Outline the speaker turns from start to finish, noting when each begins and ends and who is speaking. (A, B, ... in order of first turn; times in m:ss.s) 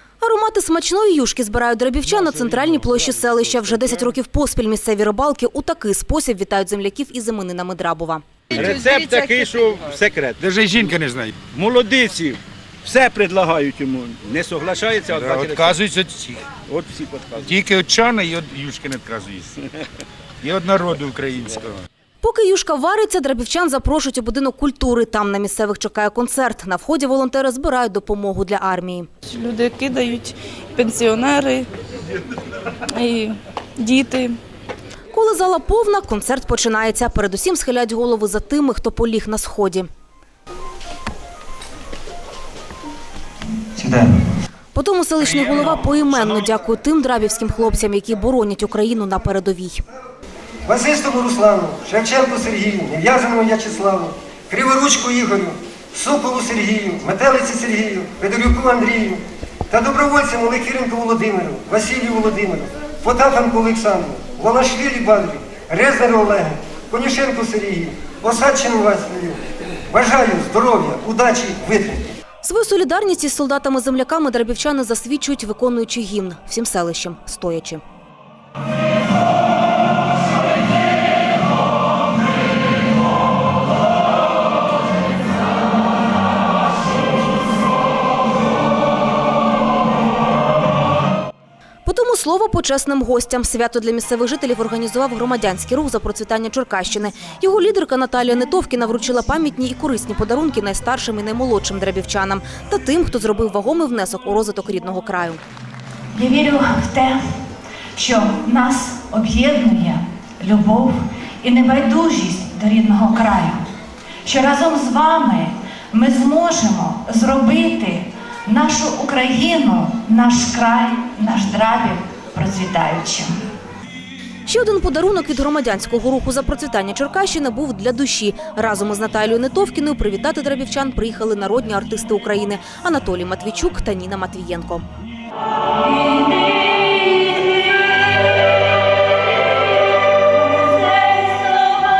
0:00.2-0:08.2 A
0:08.5-0:10.4 B
0:10.4-0:11.5 C
0:11.5-0:15.8 B
0:15.1-0:16.5 C
0:16.5-0:17.5 B
0:17.4-0:19.5 C
0:20.4-0:21.8 C
0:22.2-0:29.1 A
0:29.3-0:31.7 D
0:32.9-0:34.4 D
0:35.1-0:39.9 A
0:44.7-0:49.8 A
0:45.3-0:46.4 C
0:50.6-1:12.0 E
1:12.4-1:17.8 A
1:31.8-1:45.4 A
1:46.1-1:47.2 F
1:48.0-1:53.7 F
1:54.2-2:03.3 F
2:04.5-2:14.8 A